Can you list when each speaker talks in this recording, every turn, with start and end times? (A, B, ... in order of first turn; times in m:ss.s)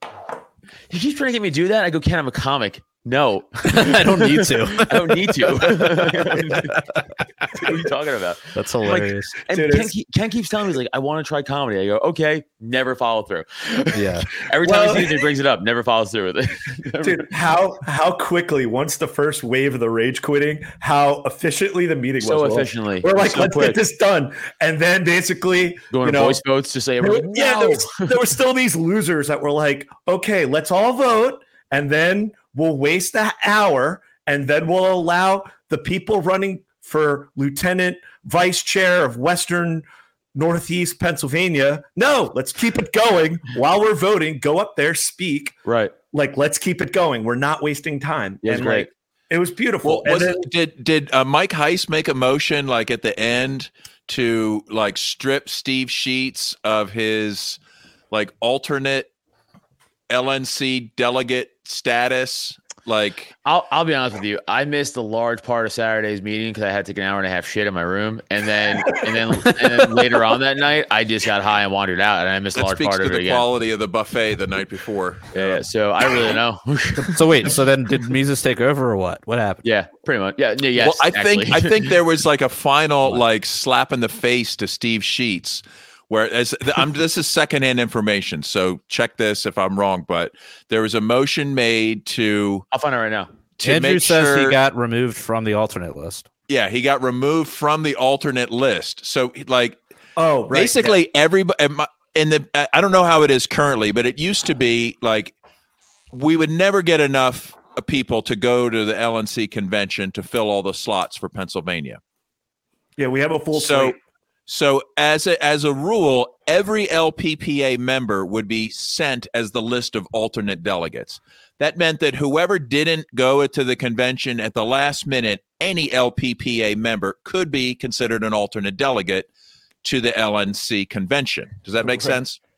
0:00.9-0:06.9 A
0:03.6-0:07.2 B
0:07.5-0:17.3 A
0:08.5-0:09.4 B
0:09.5-0:09.9 C
0:13.9-0:14.3 B
0:14.6-0:15.2 C
0:17.0-0:26.4 C
0:22.2-0:23.8 A
0:25.9-0:28.2 A
0:27.0-0:45.6 C
0:45.6-0:45.9 A
0:46.1-0:50.5 C
0:48.4-0:48.9 A
0:49.8-0:57.6 D
0:58.1-0:59.1 D
1:00.1-1:03.3 D
1:03.4-1:13.4 A
1:12.5-1:15.6 D
1:15.3-1:17.5 A
1:17.1-1:19.6 B
1:19.6-1:22.0 A
1:20.8-1:32.6 D
1:32.7-1:33.3 A
1:33.6-1:34.6 D
1:33.6-1:36.2 B
1:36.5-1:39.8 D
1:40.2-1:41.0 C
1:40.5-1:45.3 D
1:46.1-1:52.0 D
1:53.0-1:54.0 C
1:53.5-2:09.3 D
2:09.8-2:12.4 D
2:11.8-2:12.2 C